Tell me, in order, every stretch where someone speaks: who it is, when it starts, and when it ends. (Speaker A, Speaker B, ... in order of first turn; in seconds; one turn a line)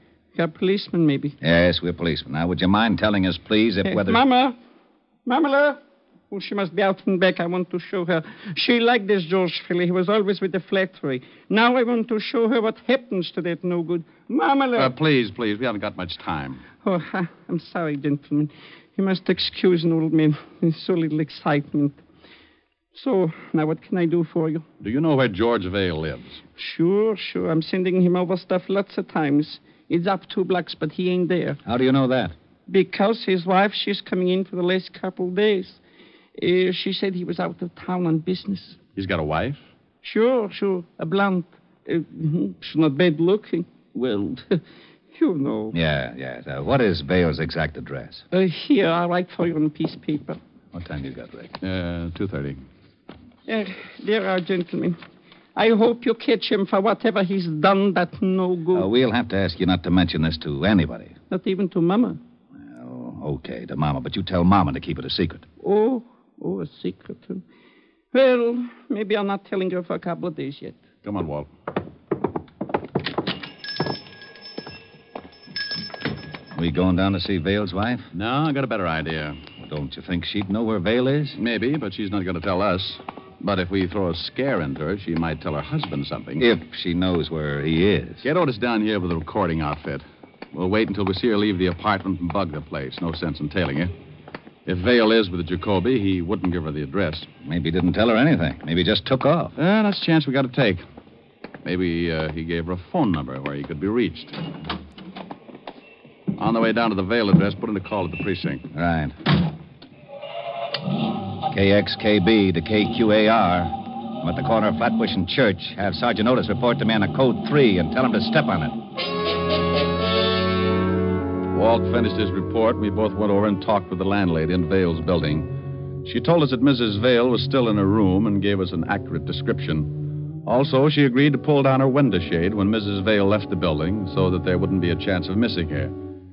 Speaker A: 0.3-1.4
Speaker B: 1.4-4.2
Speaker A: 3.8-4.5
Speaker A: 5.2-14.9
Speaker C: 14.7-16.6
Speaker A: 16.8-22.0
Speaker A: 22.9-24.6
Speaker C: 24.8-26.4
Speaker A: 26.6-31.6
Speaker B: 31.6-32.3
Speaker A: 32.7-35.8
Speaker A: 36.4-38.8
Speaker C: 39.0-39.6
Speaker A: 40.0-45.7
Speaker B: 45.7-48.2
Speaker A: 48.3-50.4
Speaker B: 50.7-51.5
Speaker C: 51.6-52.6
Speaker A: 53.5-55.0
Speaker A: 55.5-58.9
Speaker B: 58.7-61.1
Speaker A: 61.3-62.2
Speaker B: 62.6-65.4
Speaker A: 65.6-67.4
Speaker A: 68.1-70.8
Speaker C: 71.0-71.5
Speaker B: 76.5-78.1
Speaker C: 78.1-79.4
Speaker B: 79.6-81.4
Speaker C: 81.4-86.5
Speaker B: 86.4-88.2
Speaker C: 88.2-93.9
Speaker C: 94.7-97.3
Speaker B: 97.4-99.5
Speaker C: 99.6-100.8
Speaker C: 101.6-104.3
Speaker C: 106.4-108.7
Speaker B: 108.7-109.1
Speaker B: 111.5-118.8
Speaker C: 121.5-135.9